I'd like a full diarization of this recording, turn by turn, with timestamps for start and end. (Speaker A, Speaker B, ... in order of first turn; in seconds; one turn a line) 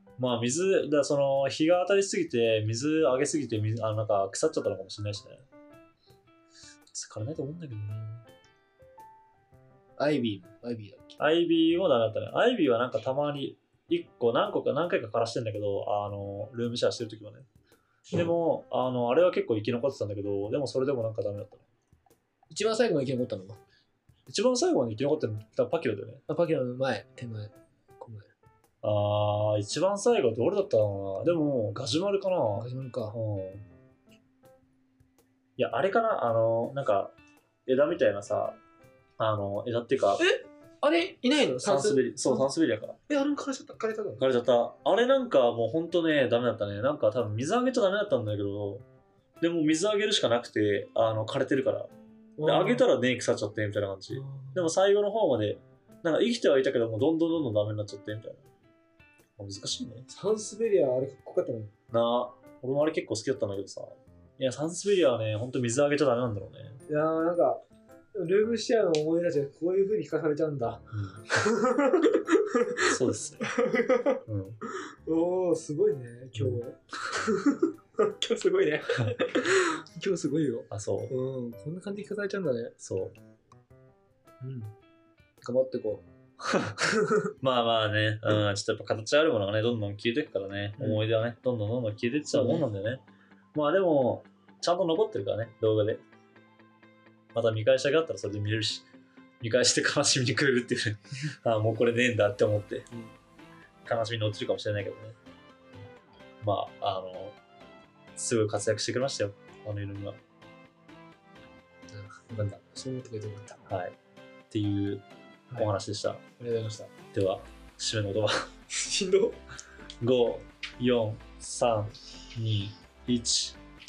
Speaker A: 0.2-5.5
Speaker A: 6.9-8.3
Speaker B: 10.0-11.2
Speaker A: 11.2-17.5
Speaker A: 18.1-21.6
Speaker B: 22.5-23.6
Speaker A: 24.3-26.2
Speaker B: 26.3-28.3
Speaker A: 28.8-33.6
Speaker B: 32.5-33.2
Speaker A: 35.6-37.1
Speaker A: 37.7-38.6
Speaker A: 39.2-40.2
Speaker B: 40.2-42.5
Speaker A: 41.6-43.0
Speaker B: 43.1-44.2
Speaker A: 44.2-48.9
Speaker A: 49.4-51.9
Speaker B: 52.4-52.9
Speaker A: 52.5-58.5
Speaker B: 54.1-54.7
Speaker A: 59.4-60.1
Speaker B: 60.1-61.7
Speaker A: 61.9-66.8
Speaker B: 66.9-67.6
Speaker B: 68.2-82.8
Speaker A: 70.9-71.3
Speaker A: 72.8-73.5
Speaker A: 74.3-74.6
Speaker A: 80.7-81.1
Speaker A: 82.8-83.1
Speaker B: 84.4-84.8
Speaker B: 85.4-86.0
Speaker A: 86.5-86.8
Speaker B: 86.8-87.3
Speaker A: 87.4-93.0
Speaker B: 92.3-92.7
Speaker A: 93.5-96.0
Speaker A: 97.3-98.9
Speaker A: 99.4-102.9
Speaker A: 103.8-105.2
Speaker A: 106.4-107.4
Speaker A: 108.2-110.2
Speaker B: 111.9-113.7
Speaker A: 113.7-114.0
Speaker A: 114.5-115.0
Speaker A: 115.6-116.2
Speaker B: 116.4-116.9
Speaker A: 117.1-118.5
Speaker B: 118.7-119.4
Speaker A: 120.0-123.6